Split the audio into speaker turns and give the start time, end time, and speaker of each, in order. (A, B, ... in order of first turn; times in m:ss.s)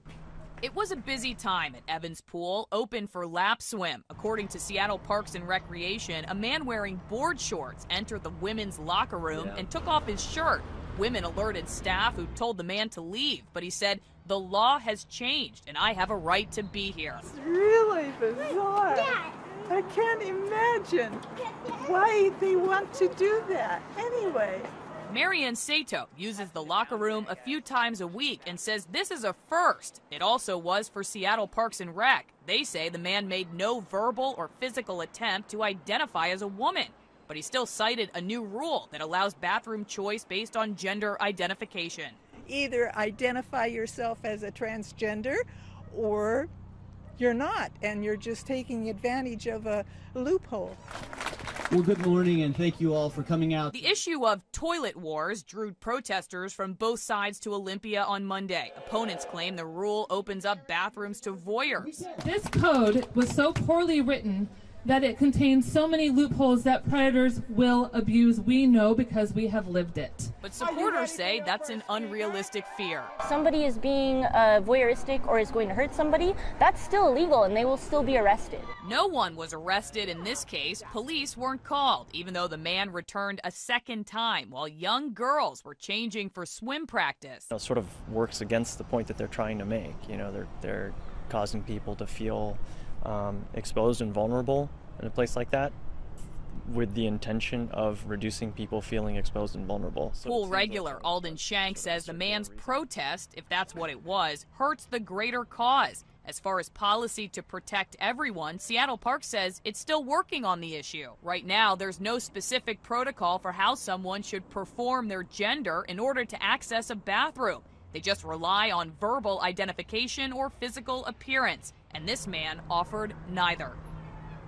0:00.6-0:17.2 A
0:09.4-0:09.6 B
0:17.2-0:24.7 C
0:25.0-0:42.2 A
0:42.4-0:46.5 C
0:47.2-0:50.8 C
0:51.7-0:53.8 D
0:53.7-1:02.1 A
1:02.1-1:10.3 E
1:10.4-1:13.1 A
1:13.2-1:18.7 F
1:18.8-1:27.5 A
1:27.5-1:35.8 B
1:36.6-1:42.8 B
1:40.2-2:03.8 A